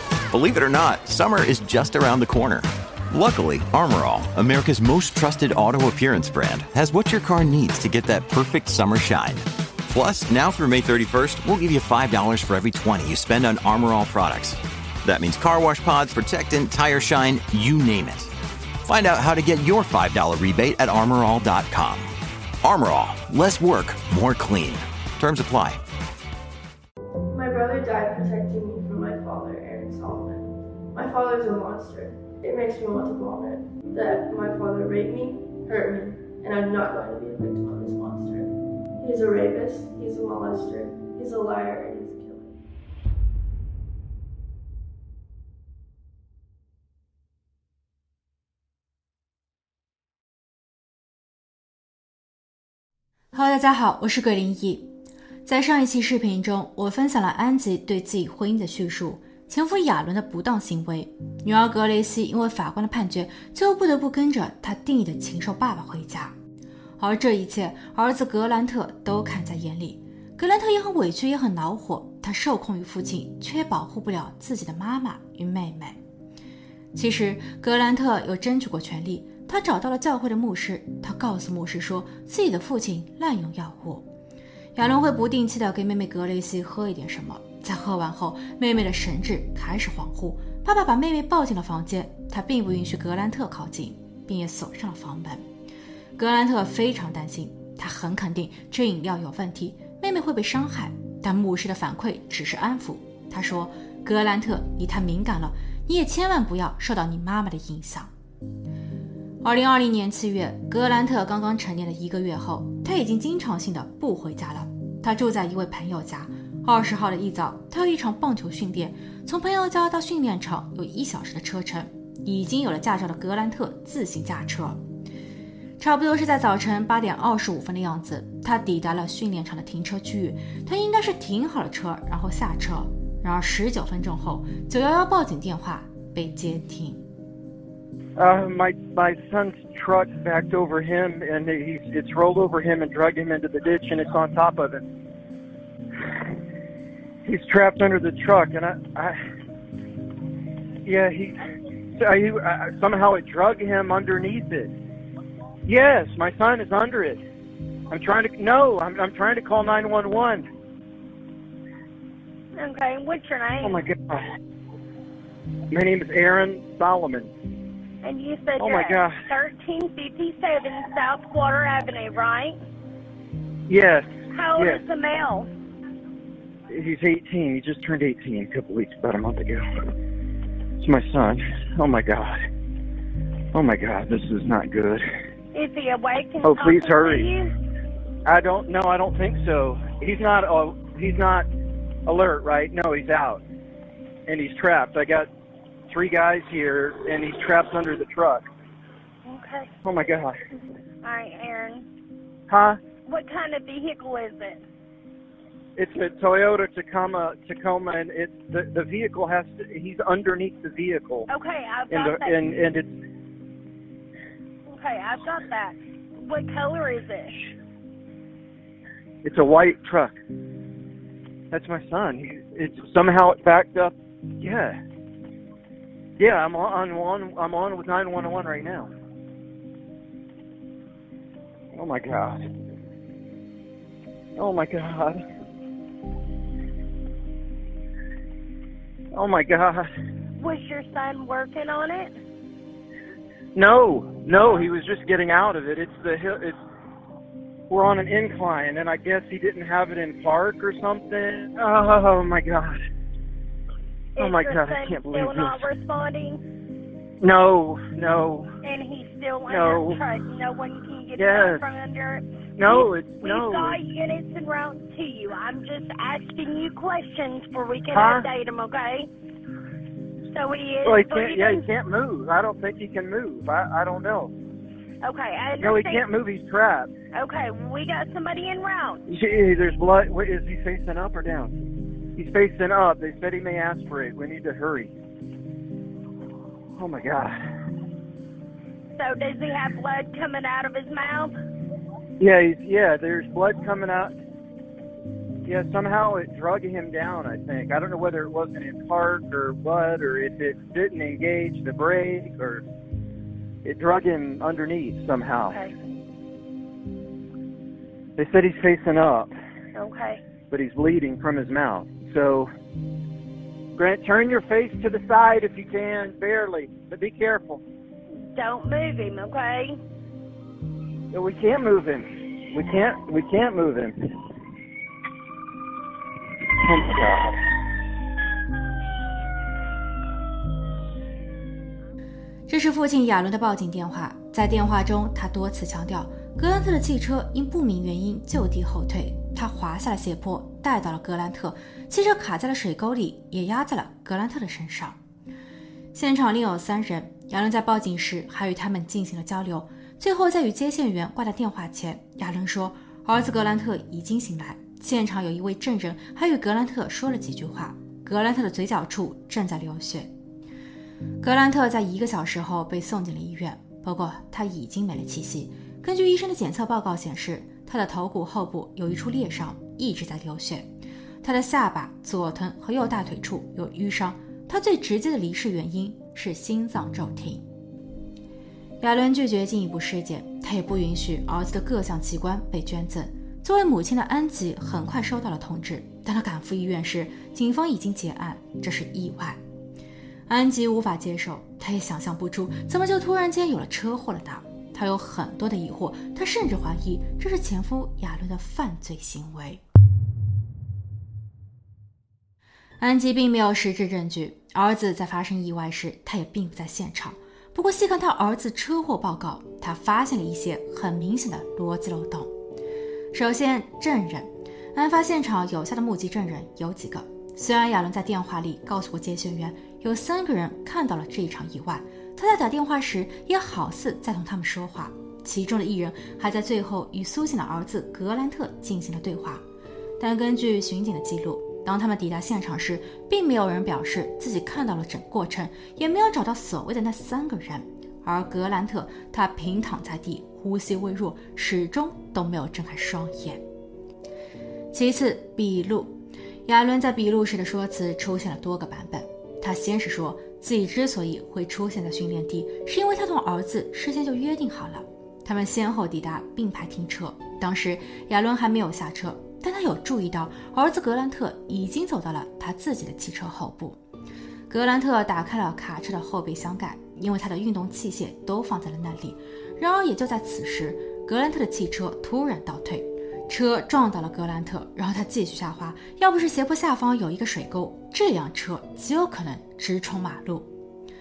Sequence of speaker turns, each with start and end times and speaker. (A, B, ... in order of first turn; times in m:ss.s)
0:00.3-0:18.3 A
0:18.8-0:22.1 A
0:22.6-0:25.8 A
0:27.3-0:42.6 B
0:53.3-0:54.9 C
0:55.4-1:06.3 C
1:07.0-1:16.0 C
1:16.9-1:24.0 C
1:24.7-1:35.4 C
1:36.2-1:48.1 C
1:49.4-2:04.8 C
2:05.8-2:17.0 C
2:18.2-2:24.8 D
2:27.2-2:29.2 D
2:30.8-2:31.4 D
2:32.0-2:34.7 D
2:35.6-2:37.2 D
2:37.9-2:40.4 D
2:42.6-2:43.8 E
2:43.6-2:44.2 D
2:45.7-2:47.3 D
2:48.0-2:52.6 E
2:48.6-2:49.2 D
2:53.7-2:54.8 D
2:54.3-2:55.5 E
2:56.7-2:59.6 D
3:00.8-3:02.4 D
3:03.5-3:05.0 D
3:05.5-3:07.5 E
3:06.4-3:07.3 D
3:08.2-3:11.5 D
3:12.0-3:13.4 D
3:14.3-3:15.3 D
3:15.9-3:18.4 D
3:19.2-3:19.7 E
3:19.8-3:20.3 D
3:21.0-3:21.8 E
3:22.5-3:22.8 D
3:23.0-3:24.6 E
3:25.8-3:31.3 D
3:31.3-3:32.4 E
3:31.9-3:32.9 D
3:34.7-3:37.4 E
3:39.2-3:40.1 D
3:41.5-3:44.8 D
3:46.2-3:48.9 D
3:51.7-3:52.5 D
3:54.4-3:55.2 D
3:59.1-3:59.9 D
4:00.4-4:02.1 E
4:03.5-4:06.6 D
4:07.7-4:12.8 D
4:14.2-4:16.4 E
4:14.2-4:15.7 D
4:17.2-4:18.5 D
4:18.6-4:29.1 E
4:19.5-4:20.0 D
4:21.2-4:21.6 D
4:22.6-4:23.8 D
4:27.9-4:28.3 D
4:30.3-4:31.6 E
4:30.8-4:34.3 D
4:35.0-4:36.1 E
4:35.6-4:36.9 D
4:37.1-4:39.0 E
4:39.1-4:41.5 D
4:42.2-4:44.9 D
4:46.8-4:47.4 D
4:49.0-4:51.3 E
4:52.2-4:54.1 D
4:55.4-5:02.6 D
5:03.6-5:05.6 D
5:08.2-5:09.3 D
5:09.7-5:10.2 E
5:10.5-5:12.5 D
5:13.8-5:17.6 D
5:18.3-5:19.8 E
5:21.1-5:24.1 D
5:26.6-5:27.4 D
5:32.5-5:45.0 C
5:45.9-6:00.1 C
6:01.2-6:10.7 C
6:11.2-6:17.4 C
6:18.8-6:29.4 C
6:30.3-6:39.6 C
6:42.8-6:52.3 C
6:53.1-7:09.4 C
7:10.0-7:23.4 C
7:24.7-7:43.8 C
7:44.5-8:00.5 C